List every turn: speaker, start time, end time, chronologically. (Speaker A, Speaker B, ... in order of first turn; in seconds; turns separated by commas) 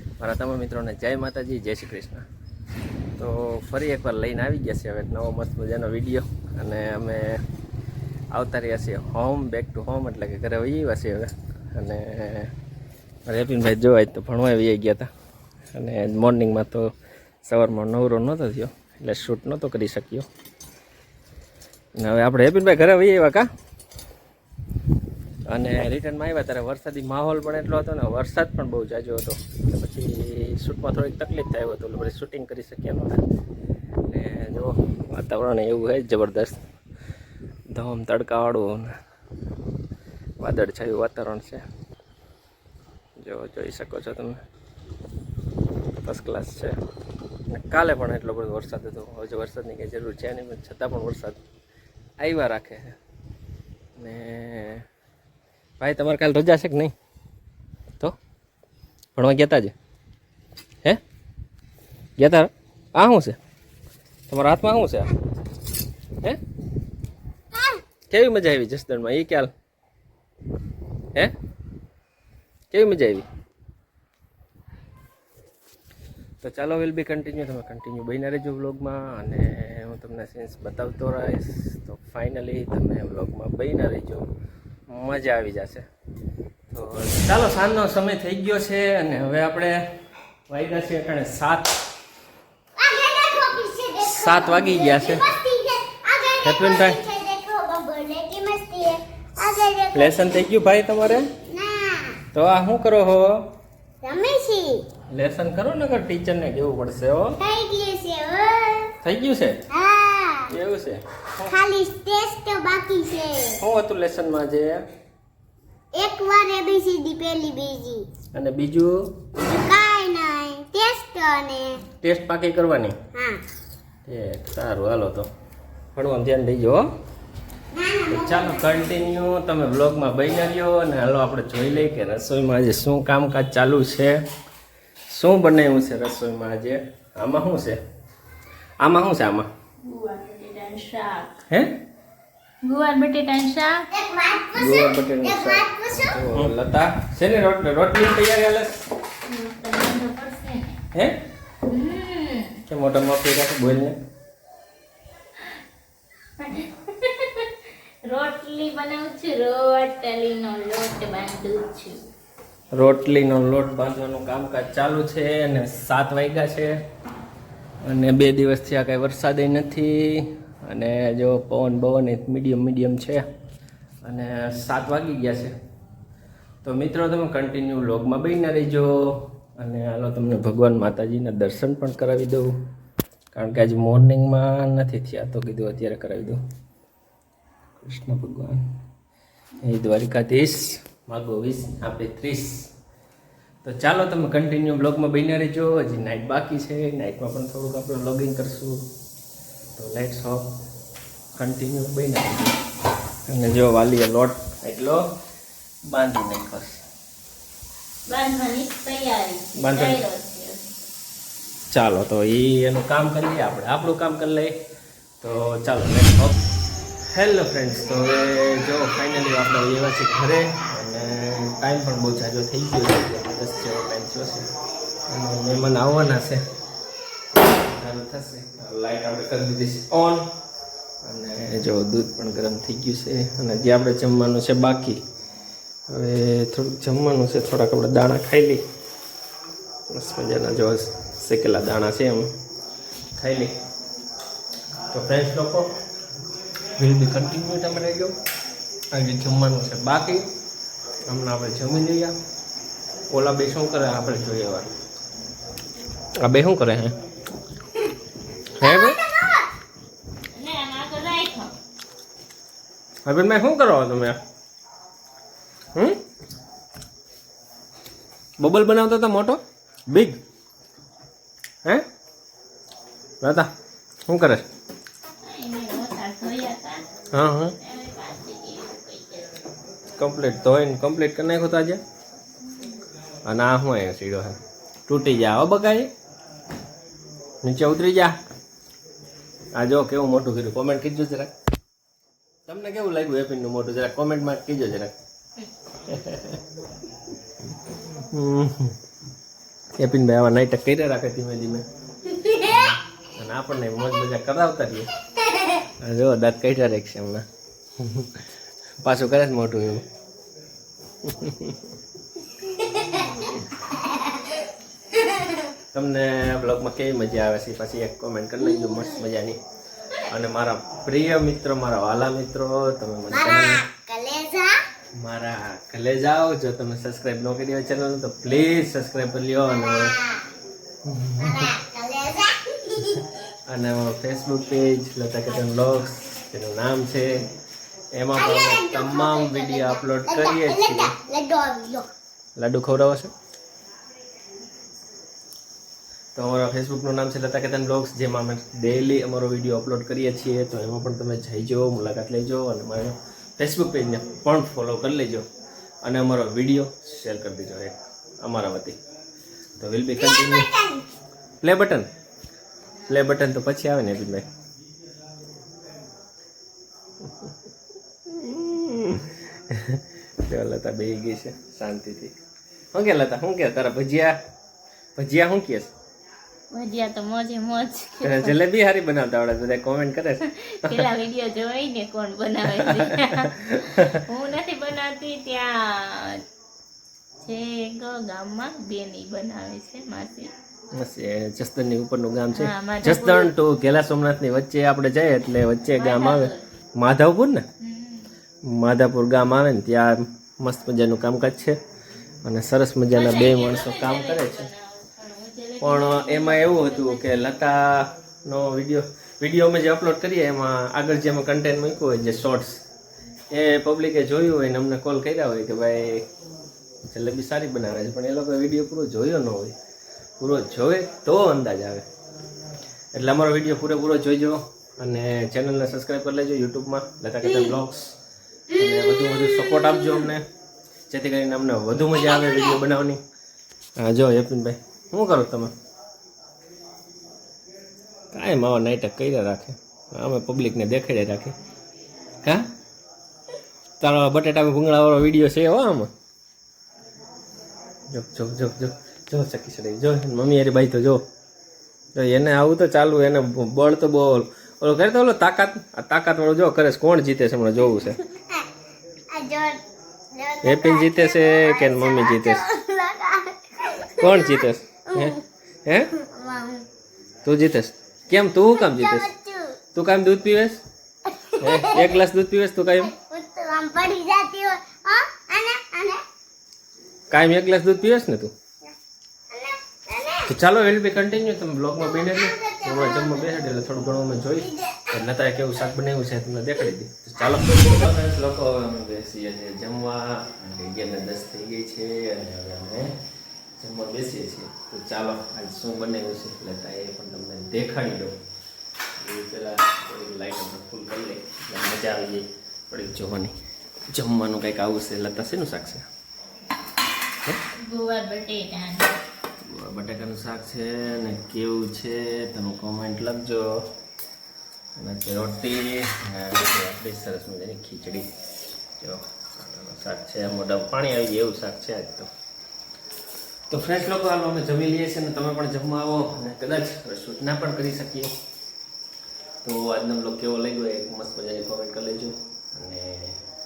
Speaker A: 0.2-2.2, Speaker A: 3.2-7.4, Speaker A: 8.3-12.5, Speaker A: 13.2-15.1, Speaker A: 15.7-16.9, Speaker A: 17.4-20.2, Speaker A: 22.0-23.5, Speaker A: 25.5-33.2, Speaker A: 34.1-36.6, Speaker A: 37.7-39.0, Speaker A: 40.4-41.6, Speaker A: 43.2-44.4, Speaker A: 46.0-46.7, Speaker A: 47.5-51.4, Speaker A: 52.2-52.9, Speaker A: 54.0-54.8, Speaker A: 55.8-56.9, Speaker A: 59.1-59.7, Speaker A: 62.2-63.4, Speaker A: 64.3-65.1, Speaker A: 68.1-69.5, Speaker A: 72.7-73.2, Speaker A: 76.4-84.2, Speaker A: 84.9-85.8, Speaker A: 86.7-89.8, Speaker A: 90.5-91.7, Speaker B: 92.8-100.3, Speaker A: 94.0-95.3, Speaker A: 96.4-97.0, Speaker A: 99.9-101.3, Speaker B: 101.5-102.2, Speaker A: 102.3-103.5, Speaker B: 104.0-104.8, Speaker A: 105.1-107.4, Speaker B: 107.4-108.9, Speaker A: 109.0-109.6, Speaker B: 109.7-110.5, Speaker A: 110.5-111.5, Speaker B: 111.4-113.6, Speaker A: 113.6-114.8, Speaker B: 115.9-118.0, Speaker A: 118.3-119.2, Speaker B: 119.5-121.8, Speaker A: 122.0-123.0, Speaker B: 123.1-123.4, Speaker A: 124.0-125.3, Speaker A: 125.9-126.8, Speaker B: 127.7-128.5, Speaker A: 128.1-134.2, Speaker A: 135.1-137.8, Speaker A: 138.8-139.5, Speaker C: 139.8-141.4, Speaker C: 142.6-143.9, Speaker B: 143.9-146.3, Speaker A: 144.5-148.8, Speaker C: 149.2-150.8, Speaker C: 151.7-152.6, Speaker A: 152.7-154.0, Speaker C: 156.4-157.5, Speaker C: 158.1-162.0, Speaker A: 162.7-166.8, Speaker A: 167.8-173.2, Speaker A: 174.0-175.5, Speaker A: 176.6-182.5, Speaker A: 183.3-186.4, Speaker A: 187.8-188.6, Speaker A: 189.6-192.7, Speaker A: 193.6-198.9, Speaker A: 199.7-200.5, Speaker A: 201.3-202.6, Speaker A: 203.3-205.0, Speaker A: 205.9-206.8, Speaker C: 208.1-210.7, Speaker A: 209.6-210.0, Speaker A: 211.7-214.5, Speaker A: 215.2-216.3, Speaker A: 217.1-224.5, Speaker A: 225.1-226.4, Speaker A: 227.5-230.3, Speaker A: 231.0-235.0, Speaker A: 235.9-238.6, Speaker A: 239.9-242.3, Speaker A: 243.2-243.6, Speaker A: 244.9-245.7, Speaker A: 246.8-248.1, Speaker A: 248.9-250.3, Speaker A: 251.1-252.1, Speaker A: 253.1-254.7, Speaker A: 256.2-256.9, Speaker A: 258.6-259.0, Speaker B: 258.6-259.5, Speaker C: 260.3-261.5, Speaker A: 263.0-264.2, Speaker A: 265.7-266.0, Speaker A: 268.4-270.2, Speaker A: 273.2-273.5, Speaker A: 274.1-274.5, Speaker C: 275.2-276.8, Speaker A: 277.1-277.5, Speaker C: 277.6-279.3, Speaker A: 279.9-281.8, Speaker A: 283.2-285.9, Speaker A: 287.4-288.2, Speaker A: 289.5-291.3, Speaker A: 292.4-294.9, Speaker A: 295.8-296.4, Speaker A: 297.9-298.8, Speaker A: 299.8-301.6, Speaker A: 302.3-304.9, Speaker A: 305.8-307.2, Speaker A: 307.8-308.2, Speaker A: 308.8-309.9, Speaker A: 311.0-311.7, Speaker A: 312.9-313.4, Speaker A: 315.7-319.4, Speaker A: 320.0-323.6, Speaker B: 323.1-324.6, Speaker A: 324.9-329.9, Speaker B: 329.7-330.2, Speaker A: 330.8-331.5, Speaker B: 331.2-333.0, Speaker A: 333.5-337.2, Speaker A: 337.9-340.9, Speaker B: 338.1-341.9, Speaker A: 342.4-343.1, Speaker A: 346.1-355.2, Speaker A: 355.8-358.8, Speaker A: 359.6-360.5, Speaker B: 360.2-360.8, Speaker A: 361.4-361.9, Speaker A: 362.9-364.3, Speaker A: 367.0-367.3, Speaker A: 368.1-372.1, Speaker A: 372.7-374.2, Speaker A: 374.9-375.7, Speaker C: 376.5-378.4, Speaker A: 378.0-380.9, Speaker C: 380.3-386.2, Speaker A: 382.4-384.0, Speaker C: 387.2-390.3, Speaker A: 390.8-397.4, Speaker C: 392.3-393.3, Speaker C: 395.7-396.4, Speaker C: 397.6-398.1, Speaker A: 398.4-401.6, Speaker A: 402.2-404.5, Speaker C: 402.9-407.3, Speaker A: 405.6-412.6, Speaker A: 413.3-416.1, Speaker A: 416.9-419.5, Speaker A: 420.2-421.8, Speaker A: 422.9-427.9, Speaker A: 428.5-430.3, Speaker A: 430.9-433.0, Speaker A: 433.8-435.5, Speaker A: 438.1-441.3, Speaker A: 443.8-445.9, Speaker A: 447.9-451.0, Speaker A: 451.9-458.0, Speaker B: 458.1-458.4, Speaker B: 459.1-459.6, Speaker B: 460.1-465.2, Speaker A: 460.4-462.4, Speaker A: 464.0-465.9, Speaker B: 465.9-466.6, Speaker A: 467.2-469.1, Speaker B: 468.6-469.6, Speaker A: 469.7-470.6, Speaker B: 471.1-472.0, Speaker A: 471.4-472.9, Speaker B: 472.9-476.0, Speaker A: 477.1-478.3, Speaker B: 479.3-480.2, Speaker A: 480.2-493.0, Speaker B: 481.9-483.4, Speaker B: 484.4-484.9, Speaker A: 493.6-498.1, Speaker A: 499.0-503.3, Speaker A: 503.9-505.9, Speaker C: 507.5-508.9, Speaker A: 509.4-513.7, Speaker A: 514.8-518.1, Speaker A: 518.8-522.1, Speaker A: 523.5-528.1, Speaker A: 529.4-533.2